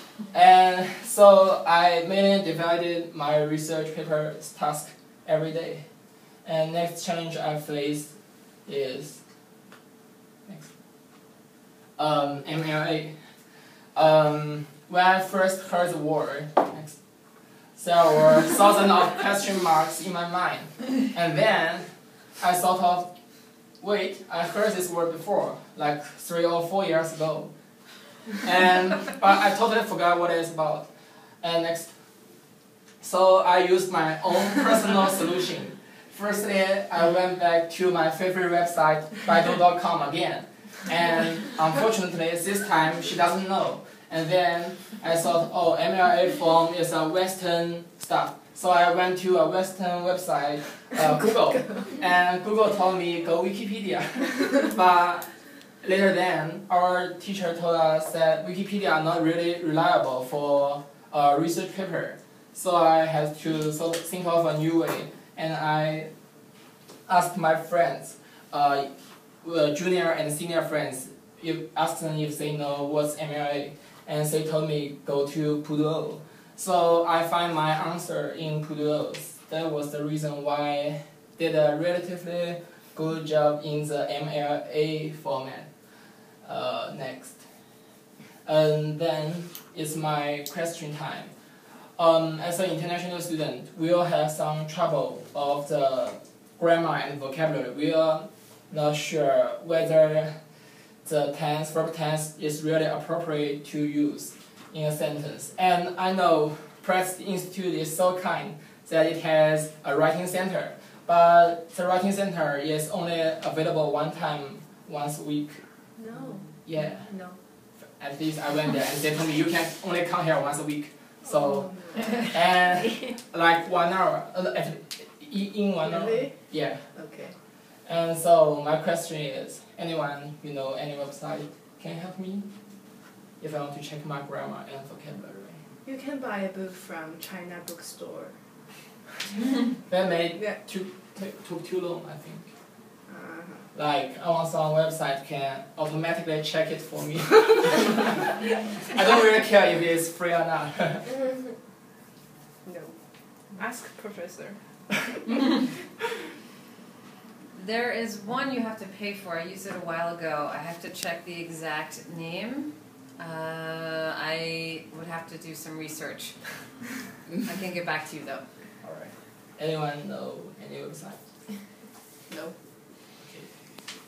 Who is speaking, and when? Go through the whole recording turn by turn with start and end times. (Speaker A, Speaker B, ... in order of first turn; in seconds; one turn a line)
Speaker A: 0.3-5.8
Speaker A: 6.4-9.2
Speaker A: 10.4-10.7
Speaker A: 12.0-13.2
Speaker A: 13.9-17.0
Speaker A: 17.7-21.9
Speaker A: 22.4-23.1
Speaker A: 23.8-27.5
Speaker A: 28.4-30.9
Speaker A: 31.4-31.9
Speaker A: 33.0-66.1
Speaker A: 67.1-68.9
Speaker A: 69.4-85.7
Speaker A: 86.4-87.4
Speaker A: 88.4-91.3
Speaker A: 92.0-100.3
Speaker A: 101.0-115.6
Speaker B: 116.0-117.4
Speaker A: 116.6-117.1
Speaker A: 117.9-126.9
Speaker B: 121.2-122.3
Speaker B: 125.8-127.3
Speaker A: 127.8-132.5
Speaker A: 133.4-135.6
Speaker B: 135.8-138.3
Speaker A: 139.8-142.5
Speaker B: 143.1-143.7
Speaker A: 143.7-151.1
Speaker B: 151.1-151.5
Speaker B: 152.6-152.9
Speaker B: 153.5-154.6
Speaker C: 157.5-168.6
Speaker A: 168.8-171.2
Speaker B: 172.3-172.5
Speaker A: 173.2-173.6